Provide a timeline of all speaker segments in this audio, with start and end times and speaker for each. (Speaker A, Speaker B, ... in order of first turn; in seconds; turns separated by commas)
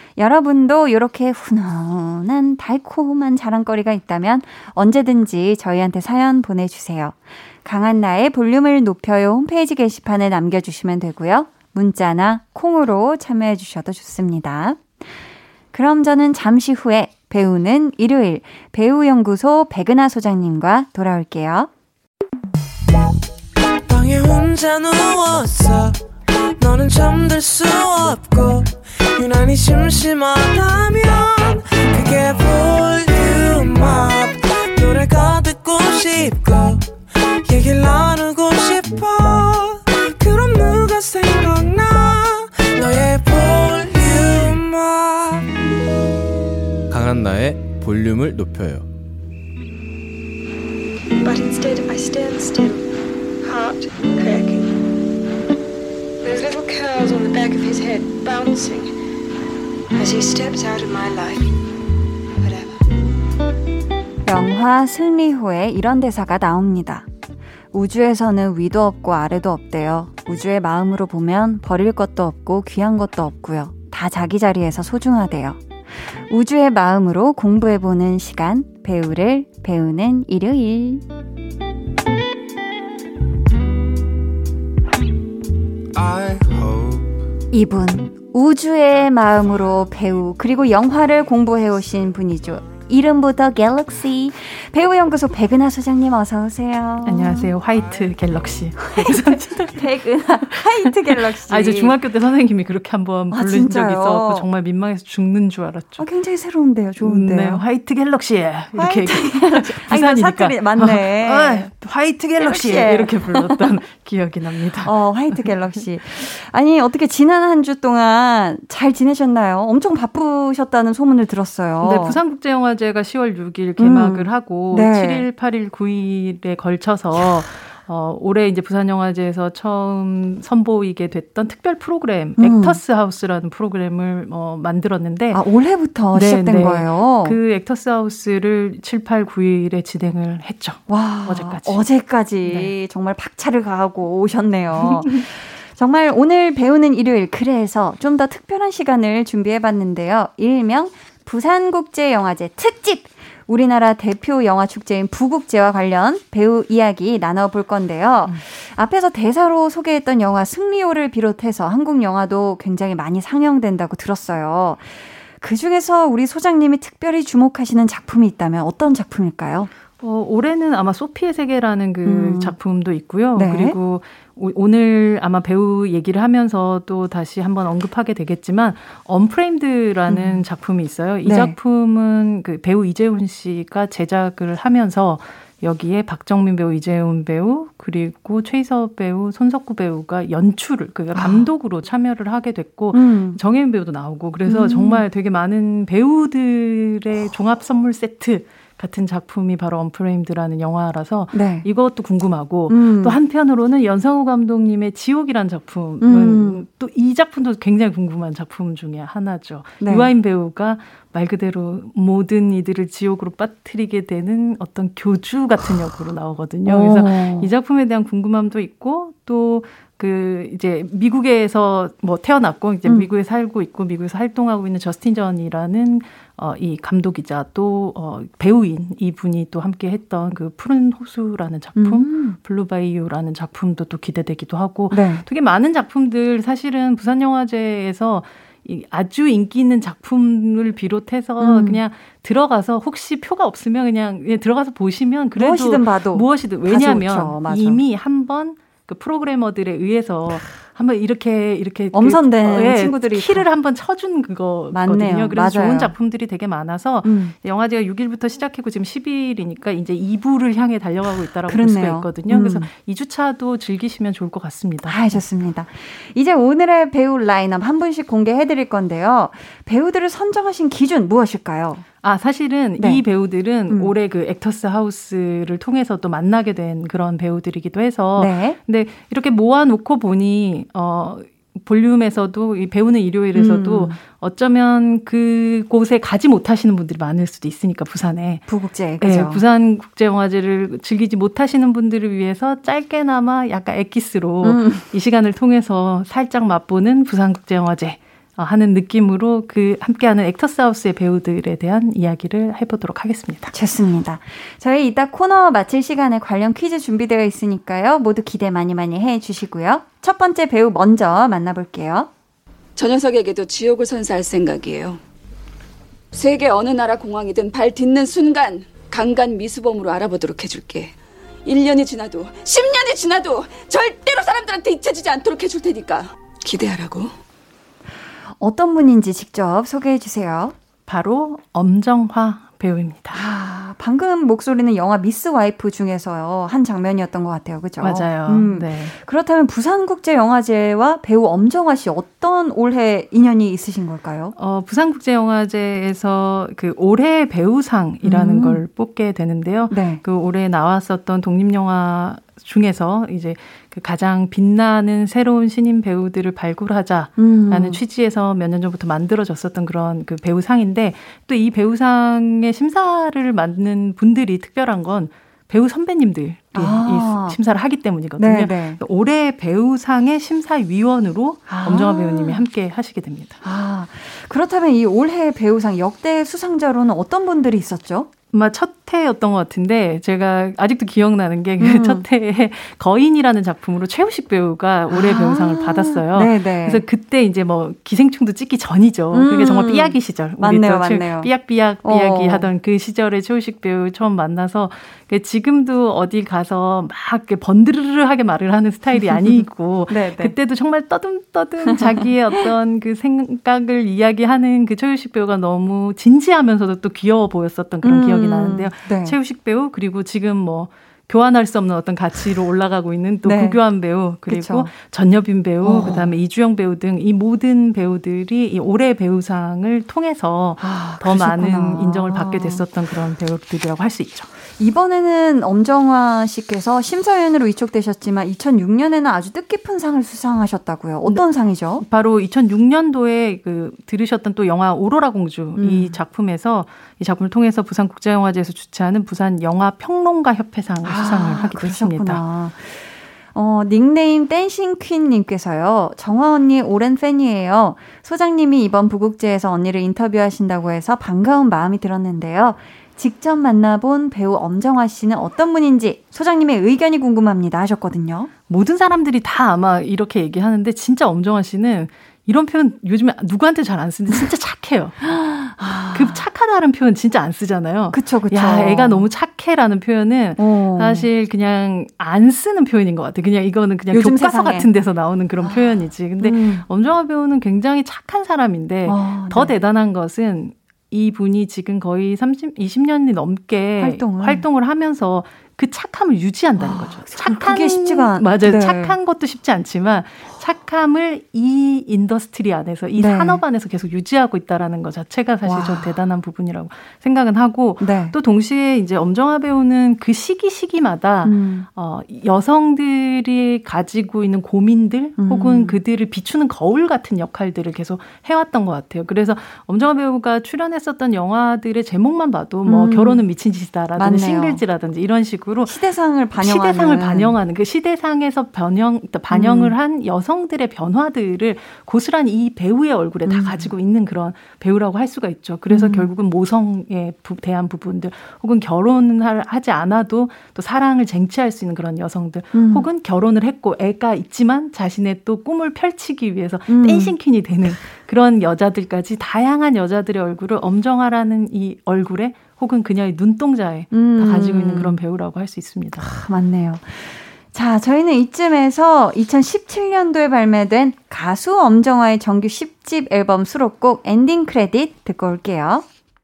Speaker A: 0.2-14.8, Speaker A: 15.7-21.7, Speaker B: 23.9-26.0, Speaker B: 26.6-36.8, Speaker B: 37.4-45.5, Speaker C: 46.9-48.9, Speaker D: 51.2-52.9, Speaker D: 53.4-54.7, Speaker D: 56.2-58.9, Speaker D: 59.9-61.5, Speaker D: 62.4-62.8, Speaker A: 64.2-67.0, Speaker A: 67.7-75.6, Speaker A: 76.1-81.0, Speaker A: 87.5-97.5, Speaker E: 97.0-99.8, Speaker A: 98.8-102.0, Speaker E: 100.5-106.0, Speaker A: 103.3-104.5, Speaker A: 106.0-107.6, Speaker E: 107.0-115.5, Speaker A: 108.7-111.7, Speaker A: 112.4-113.7, Speaker A: 114.8-122.2, Speaker E: 121.8-135.4, Speaker A: 123.8-125.3, Speaker A: 132.4-132.8, Speaker A: 135.3-137.4, Speaker E: 136.1-141.8, Speaker A: 140.9-164.9, Speaker E: 142.4-142.7, Speaker E: 144.7-145.2, Speaker A: 165.4-169.7, Speaker E: 170.0-265.1, Speaker A: 172.0-172.5, Speaker A: 173.3-173.8, Speaker A: 180.1-180.4, Speaker A: 181.2-181.5, Speaker A: 191.1-191.5, Speaker A: 192.9-193.4, Speaker A: 194.4-195.0, Speaker A: 201.3-201.7, Speaker A: 202.7-203.2, Speaker A: 206.0-206.6, Speaker A: 209.8-210.1, Speaker A: 216.7-217.5, Speaker A: 231.8-232.4, Speaker A: 234.9-235.2, Speaker A: 241.4-241.8, Speaker A: 245.3-247.8, Speaker A: 251.9-253.4, Speaker A: 254.7-255.9, Speaker A: 257.0-257.3, Speaker A: 261.5-262.7, Speaker A: 264.9-271.8, Speaker E: 272.0-288.4, Speaker A: 272.8-273.0, Speaker A: 278.1-278.6, Speaker A: 283.3-284.0, Speaker A: 288.5-289.4, Speaker E: 289.0-303.5, Speaker A: 294.4-294.9, Speaker A: 303.5-312.1, Speaker F: 312.8-315.0, Speaker F: 316.1-320.9, Speaker F: 321.4-327.1, Speaker A: 328.4-330.5, Speaker E: 330.9-333.2, Speaker A: 333.1-344.3, Speaker E: 337.8-338.9, Speaker E: 344.4-373.4, Speaker A: 348.0-348.6, Speaker A: 349.7-350.0, Speaker A: 357.2-357.8, Speaker A: 366.5-367.4, Speaker A: 368.2-368.8, Speaker A: 371.5-372.4, Speaker A: 373.4-378.1, Speaker E: 378.3-424.3, Speaker A: 381.6-382.0, Speaker A: 384.9-386.8, Speaker A: 389.1-391.3, Speaker A: 391.8-392.5, Speaker A: 399.0-400.3, Speaker A: 401.6-402.4, Speaker A: 407.8-409.2, Speaker A: 413.2-413.6, Speaker A: 414.2-414.7, Speaker A: 415.6-416.2, Speaker A: 420.6-422.6, Speaker A: 424.6-431.8, Speaker E: 431.8-442.2, Speaker A: 435.6-436.0, Speaker A: 440.8-458.3, Speaker E: 458.5-464.9, Speaker A: 465.0-466.2, Speaker E: 465.9-515.7, Speaker A: 467.9-469.1, Speaker A: 470.4-471.1, Speaker A: 473.9-474.7, Speaker A: 475.4-476.6, Speaker A: 478.9-479.5, Speaker A: 483.8-484.4, Speaker A: 486.6-488.9, Speaker A: 493.0-493.4, Speaker A: 495.4-495.9, Speaker A: 497.8-498.1, Speaker A: 501.2-501.7, Speaker A: 505.2-505.8, Speaker A: 512.6-513.2, Speaker A: 514.0-514.6, Speaker A: 515.6-517.3, Speaker E: 516.4-546.1, Speaker A: 519.3-519.7, Speaker A: 523.2-523.7, Speaker A: 525.7-526.1, Speaker A: 532.5-532.9, Speaker A: 536.7-537.1, Speaker A: 543.9-545.0, Speaker A: 546.0-555.8